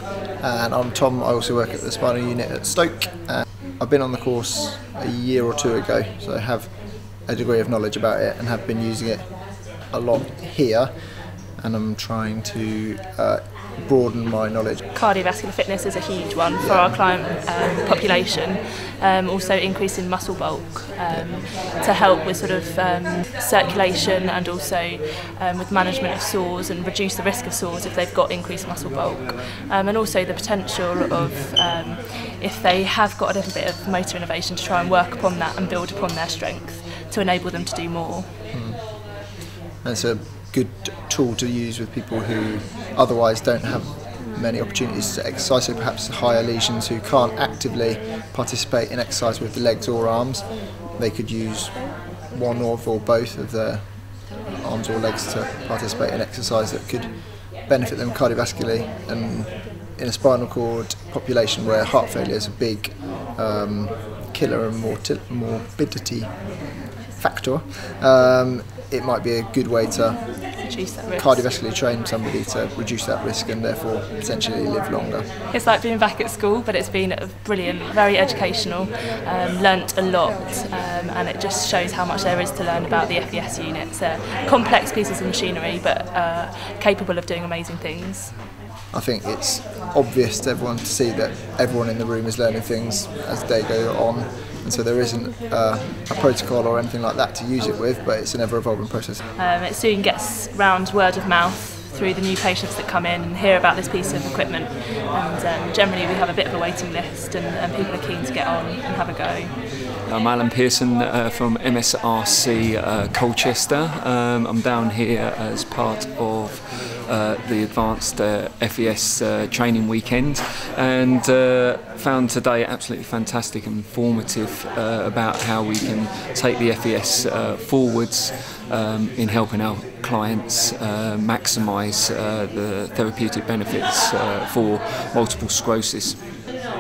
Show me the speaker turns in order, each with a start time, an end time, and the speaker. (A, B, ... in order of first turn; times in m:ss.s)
0:00.4-0:14.8 A
0:14.9-0:38.4 B
0:16.6-0:17.0 A
0:38.5-0:38.9 A
0:39.8-1:15.3 A
1:10.6-1:11.5 B
1:15.5-1:28.4 B
1:28.9-1:39.2 A
1:39.4-1:49.6 B
1:50.1-2:16.3 C